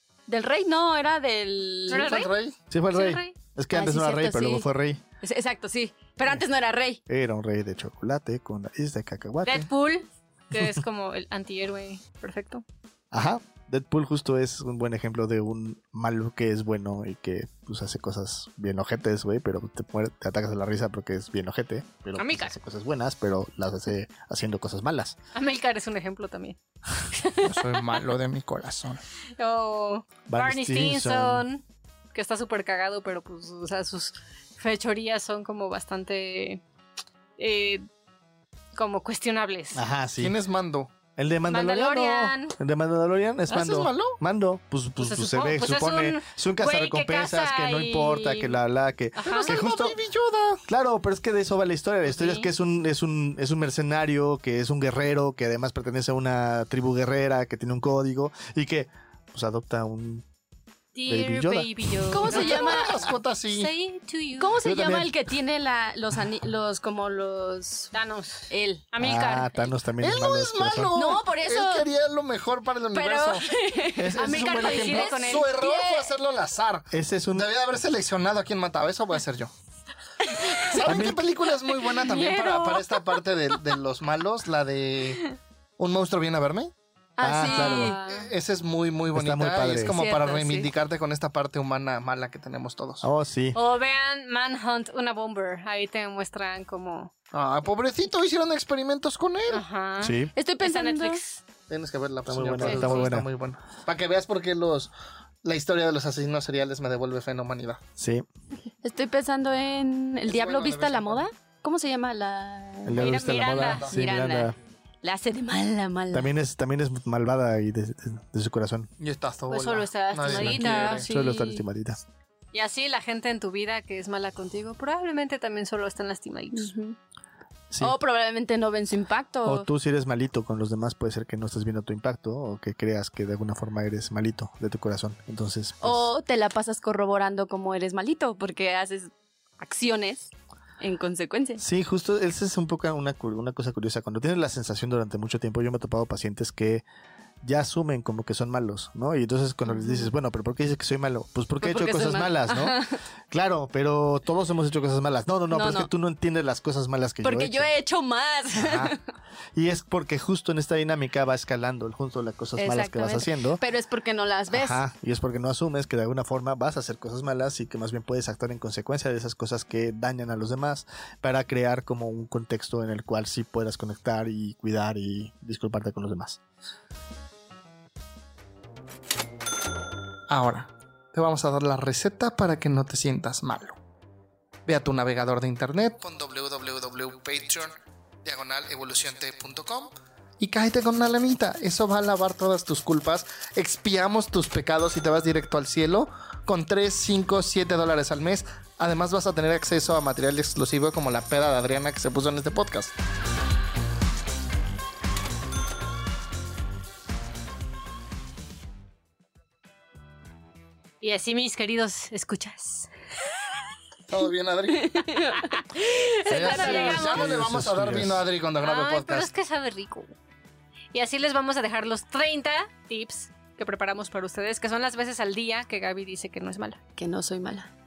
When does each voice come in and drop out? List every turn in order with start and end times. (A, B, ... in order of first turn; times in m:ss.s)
0:00.3-0:02.3 A
0:01.9-0:02.3 B
0:01.9-0:02.6 C
0:02.7-0:05.0 D
0:02.9-0:03.4 B
0:03.7-0:04.6 A
0:05.2-0:07.0 A
0:07.1-0:09.7 D
0:09.4-0:12.6 B
0:13.1-0:25.2 D
0:22.2-0:22.6 B
0:25.3-0:28.0 B
0:27.4-0:29.0 C
0:29.4-0:36.6 B
0:30.3-0:31.4 D
0:37.4-0:37.9 B
0:38.8-0:39.8 B
0:39.7-0:40.4 D
0:40.2-0:40.9 C
0:41.2-0:50.0 D
0:41.5-0:42.6 B
0:43.5-0:44.2 C
0:45.0-0:48.6 B
0:49.2-0:49.5 B
0:49.2-0:50.6 C
0:50.7-1:00.3 D
0:52.1-0:52.5 B
1:01.0-1:04.5 B
1:01.1-1:01.9 D
1:02.1-1:03.0 A
1:02.3-1:03.7 C
1:04.4-1:07.9 A
1:04.6-1:05.1 D
1:07.9-1:09.7 B
1:08.5-1:08.8 A
1:09.0-1:11.0 D
1:10.0-1:13.5 C
1:10.9-1:11.9 A
1:12.9-1:16.1 A
1:14.0-1:14.8 D
1:14.0-1:19.5 C
1:14.1-1:15.5 B
1:16.9-1:17.5 D
1:20.2-1:20.7 A
1:20.6-1:26.7 C
1:20.8-1:21.3 D
1:21.6-1:23.2 A
1:27.2-1:28.0 A
1:27.2-1:28.0 D
1:27.4-1:28.3 B
1:28.1-1:33.1 C
1:29.1-1:30.0 D
1:29.8-1:30.7 A
1:33.0-1:33.6 D
1:33.6-1:37.1 B
1:37.3-1:39.6 C
1:39.5-1:41.4 B
1:40.0-1:40.3 D
1:40.3-1:41.2 A
1:41.7-1:44.9 C
1:42.3-1:43.3 D
1:42.6-1:43.1 B
1:45.4-1:47.8 C
1:48.0-1:48.3 D
1:48.8-1:53.2 A
1:50.2-1:51.3 C
1:52.8-1:54.6 D
1:53.0-1:53.9 B
1:53.6-1:54.0 C
1:53.9-1:56.3 A
1:56.1-1:58.9 D
1:59.0-2:01.1 C
1:59.5-2:01.1 B
2:00.2-2:01.6 A
2:01.1-2:02.0 D
2:02.5-2:06.7 B
2:06.5-2:07.0 A
2:07.7-2:08.0 D
2:07.8-2:09.7 A
2:09.4-2:16.1 D
2:15.8-2:21.6 A
2:21.6-2:26.8 D
2:27.4-2:37.7 D
2:29.7-2:30.1 A
2:31.6-2:33.0 A
2:35.5-2:35.9 A
2:37.2-2:39.0 A
2:38.6-2:39.0 D
2:39.6-2:43.6 D
2:42.6-2:44.8 A
2:44.5-2:56.4 D
3:00.3-3:03.8 C
3:04.7-3:07.7 C
3:08.2-3:22.9 C
3:31.0-3:32.9 B
3:34.1-3:35.2 C
3:34.8-3:37.0 A
3:36.2-3:37.3 B
3:36.2-3:39.3 C
3:36.6-3:38.2 D
3:38.6-3:40.2 B
3:40.9-3:46.8 B
3:47.0-3:47.7 A